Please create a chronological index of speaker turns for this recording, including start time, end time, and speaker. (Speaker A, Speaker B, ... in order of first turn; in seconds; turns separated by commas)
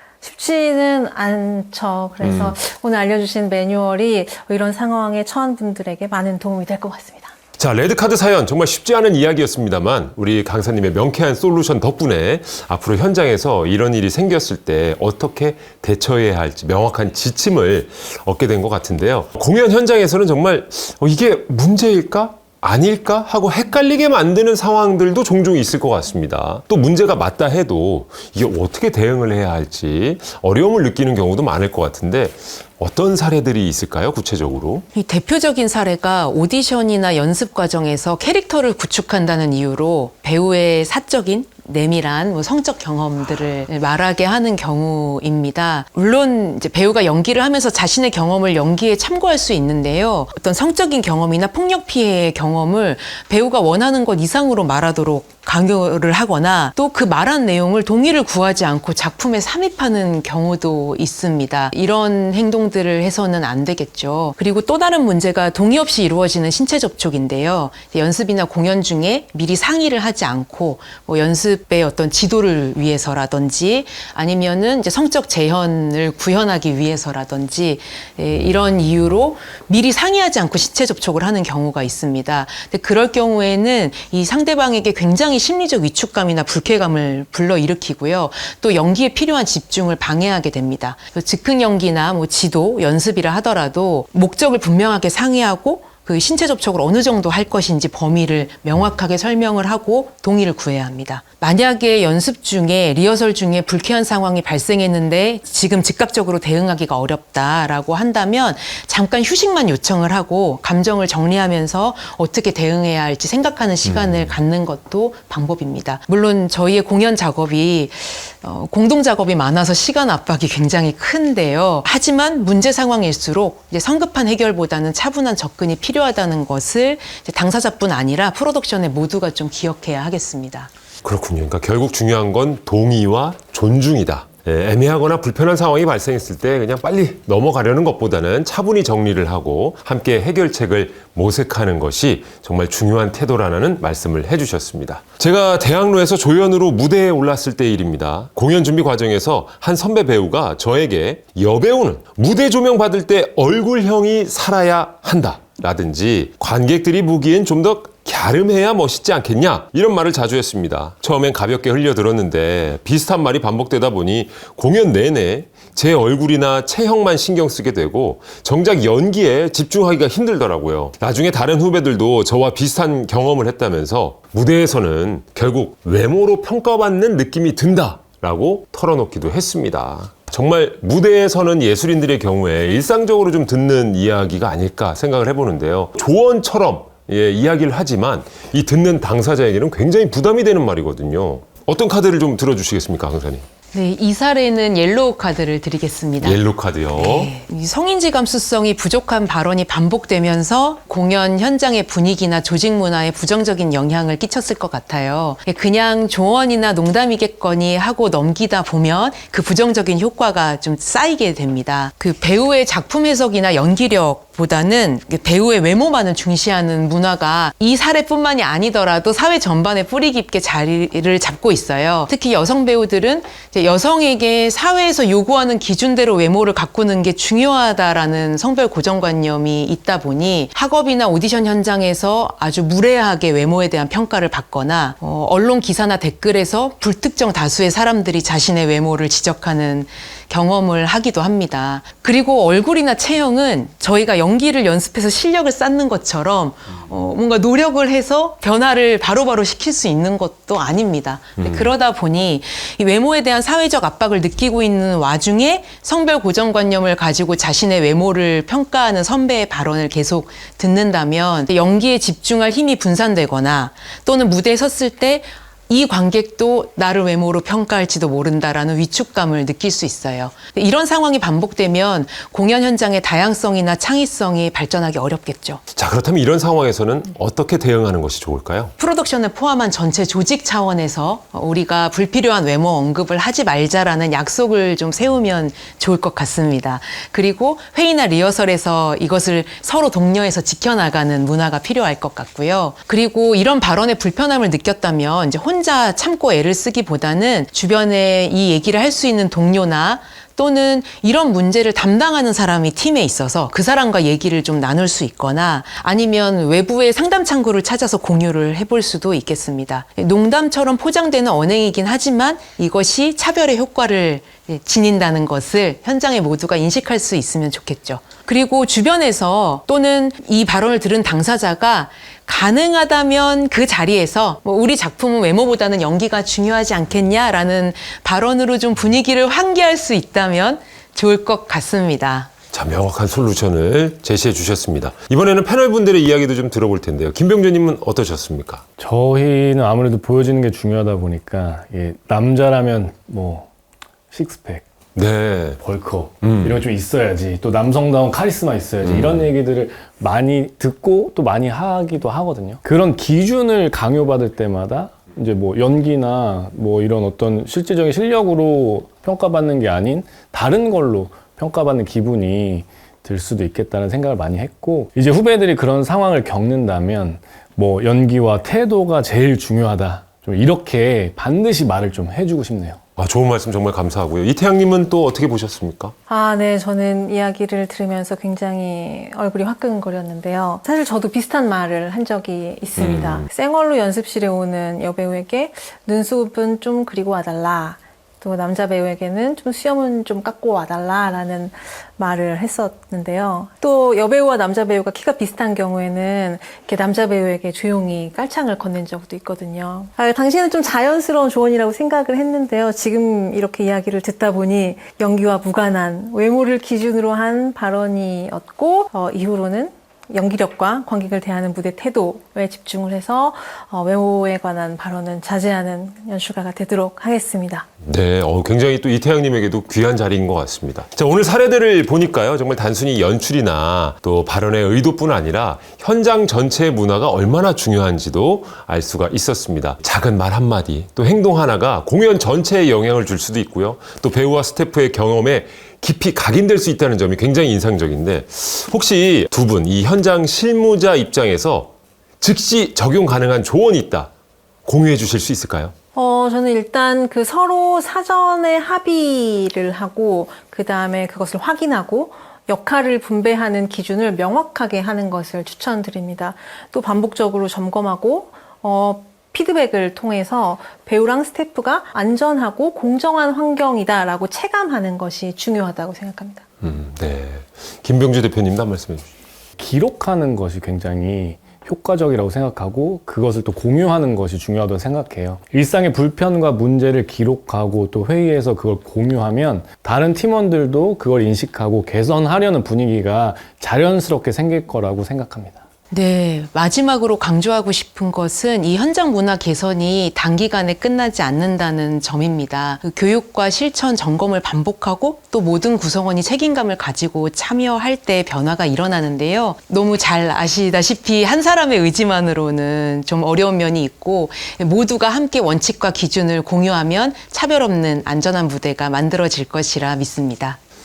Speaker A: 0.2-7.3, Speaker B: 2.2-2.6, Speaker B: 7.6-34.8, Speaker C: 34.9-130.7, Speaker B: 113.8-114.3, Speaker B: 131.0-193.4, Speaker C: 193.7-196.4, Speaker B: 196.2-197.3, Speaker C: 196.9-275.6, Speaker B: 251.4-251.6, Speaker B: 275.7-278.7, Speaker C: 278.8-332.3, Speaker B: 332.5-338.6, Speaker D: 338.8-343.5, Speaker D: 344.1-344.6, Speaker B: 344.9-345.6, Speaker D: 345.6-372.8, Speaker B: 346.2-346.6, Speaker B: 348.8-349.3, Speaker B: 373.0-375.9, Speaker A: 376.1-417.6, Speaker B: 382.8-383.3, Speaker B: 417.8-444.1, Speaker B: 444.6-445.7, Speaker A: 445.9-466.4, Speaker B: 466.6-469.1, Speaker D: 469.6-485.6, Speaker C: 485.9-510.6